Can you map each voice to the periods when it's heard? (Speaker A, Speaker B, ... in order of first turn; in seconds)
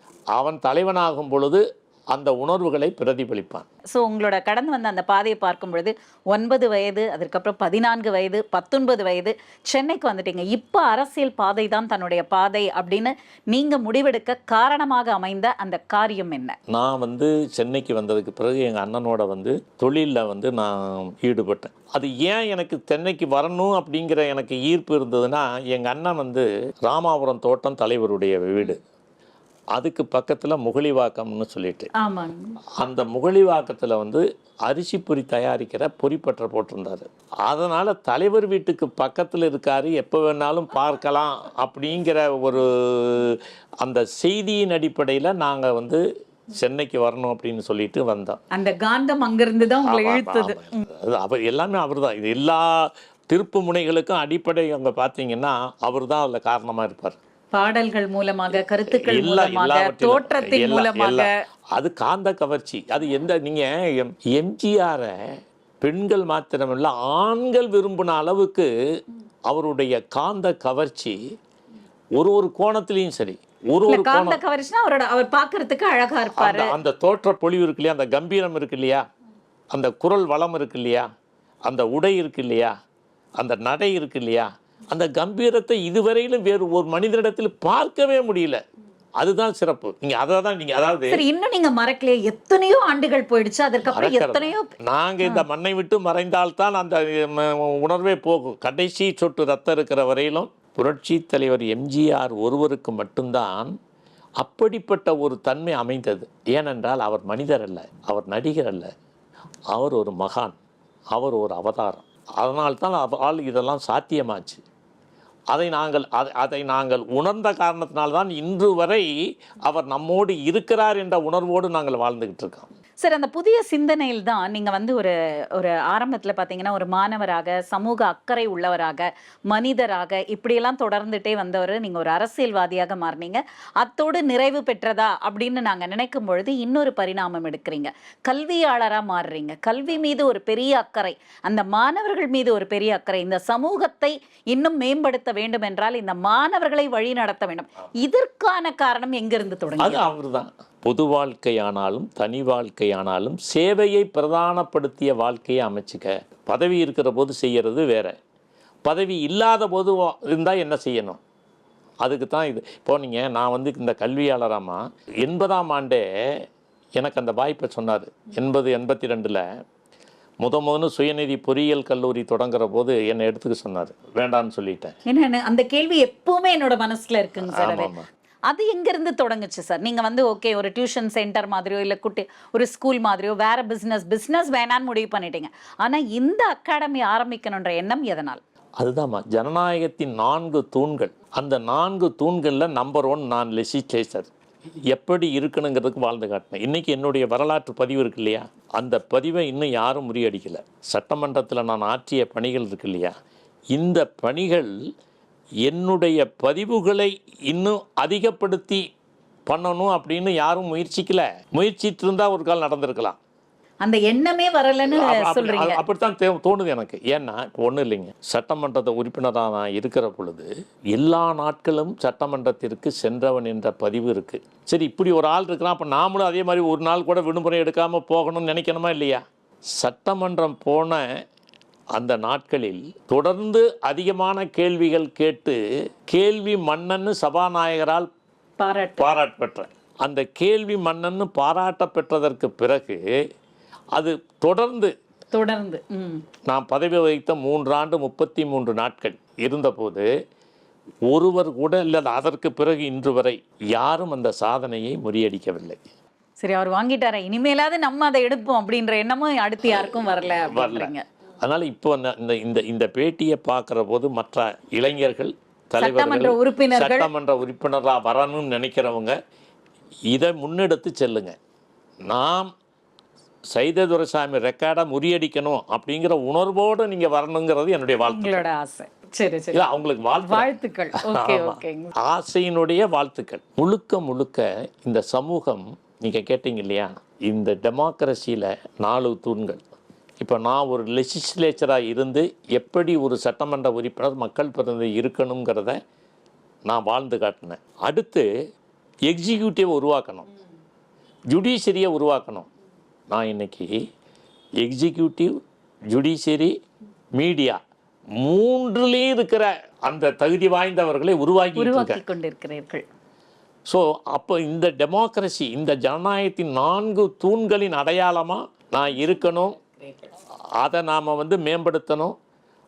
Speaker A: 0.3-3.7, 16.7-28.8, 29.8-31.9, 32.8-48.4, 49.9-57.2, 58.9-65.2, 65.8-68.7, 69.5-71.2, 72.2-74.4, 76.3-79.0, 79.7-81.1, 81.7-82.7, 83.4-88.6, 89.2-91.2, 93.9-103.7, 104.4-108.9, 109.7-110.6, 111.1-114.6, 115.5-122.7, 149.8-158.2, 158.8-161.2, 162.0-166.5, 167.0-169.4, 170.4-175.0, 177.4-178.1, 188.8-194.3, 194.9-203.1, 203.7-204.7, 205.7-208.8, 209.5-213.2, 214.9-229.2, 229.8-231.1, 231.9-238.1, 239.0-243.0, 243.9-244.9, 246.5-250.1, 251.1-255.8, 260.5-269.2, 270.1-271.3, 272.1-272.5, 273.5-278.5, 279.5-289.6, 290.2-295.8, 296.7-298.3, 299.1-300.3, 301.3-302.5, 303.1-303.8, 304.6-305.3, 305.9-306.5, 307.2-307.6, 308.2-312.0, 313.7-319.6, 320.6-322.2
Speaker B: 3.9-16.6, 32.0-32.5, 48.5-50.8, 57.5-61.3, 73.9-76.8, 91.1-94.7, 123.0-150.1, 175.1-177.9, 178.5-188.4, 213.8-215.8, 238.6-239.1, 245.3-246.2, 256.4-261.0, 265.8-267.1, 278.0-279.7, 280.2-281.9, 311.6-312.8